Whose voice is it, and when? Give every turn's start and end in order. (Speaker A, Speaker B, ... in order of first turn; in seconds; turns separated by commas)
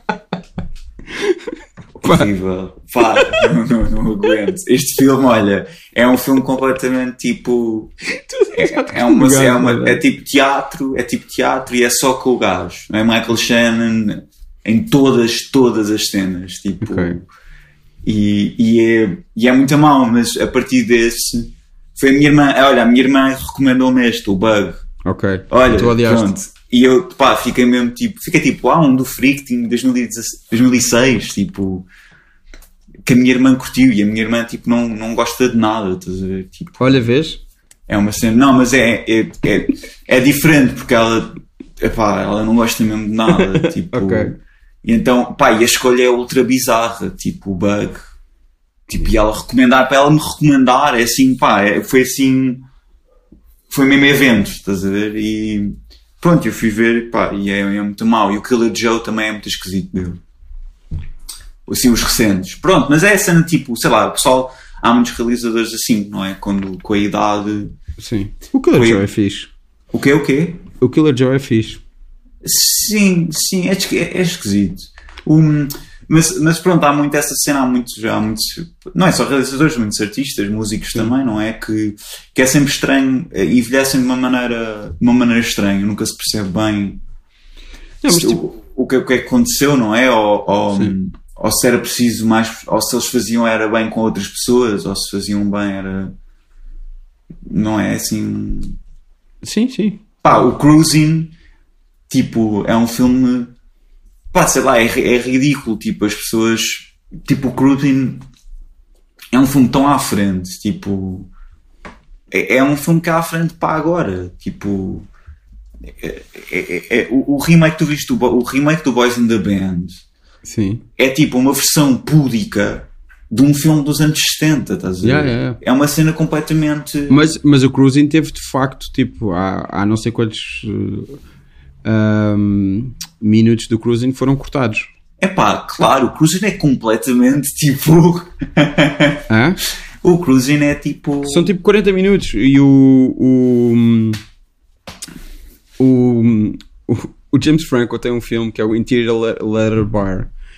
Speaker A: 1.1-1.4, Speaker B: 2.0-7.9, Speaker A: 2.0-2.3, Speaker A: 3.1-3.5, Speaker A: 8.3-10.0, Speaker B: 8.5-17.2, Speaker A: 16.8-17.2, Speaker B: 18.0-24.8, Speaker A: 25.0-26.3, Speaker B: 25.5-31.9, Speaker B: 33.0-37.0, Speaker A: 36.8-37.4, Speaker B: 37.9-48.0, Speaker A: 43.3-44.4, Speaker B: 48.9-52.6, Speaker B: 53.7-60.2, Speaker B: 61.6-67.7, Speaker A: 68.0-69.5, Speaker B: 68.7-69.0, Speaker B: 69.9-70.7, Speaker A: 70.8-71.8, Speaker B: 72.4-87.0, Speaker A: 88.0-88.4, Speaker B: 88.1-96.1, Speaker B: 97.5-98.8, Speaker A: 99.4-100.0, Speaker B: 100.2-101.3, Speaker B: 102.1-103.5, Speaker B: 104.3-108.2, Speaker B: 109.3-111.3, Speaker B: 112.3-115.1, Speaker B: 115.9-120.0, Speaker A: 120.4-120.8, Speaker B: 121.0-127.3, Speaker A: 125.0-125.6, Speaker A: 127.1-131.2, Speaker A: 131.8-134.9, Speaker B: 135.2-139.2, Speaker A: 139.3-139.6, Speaker B: 140.0-141.5, Speaker A: 141.2-144.2, Speaker A: 145.8-150.3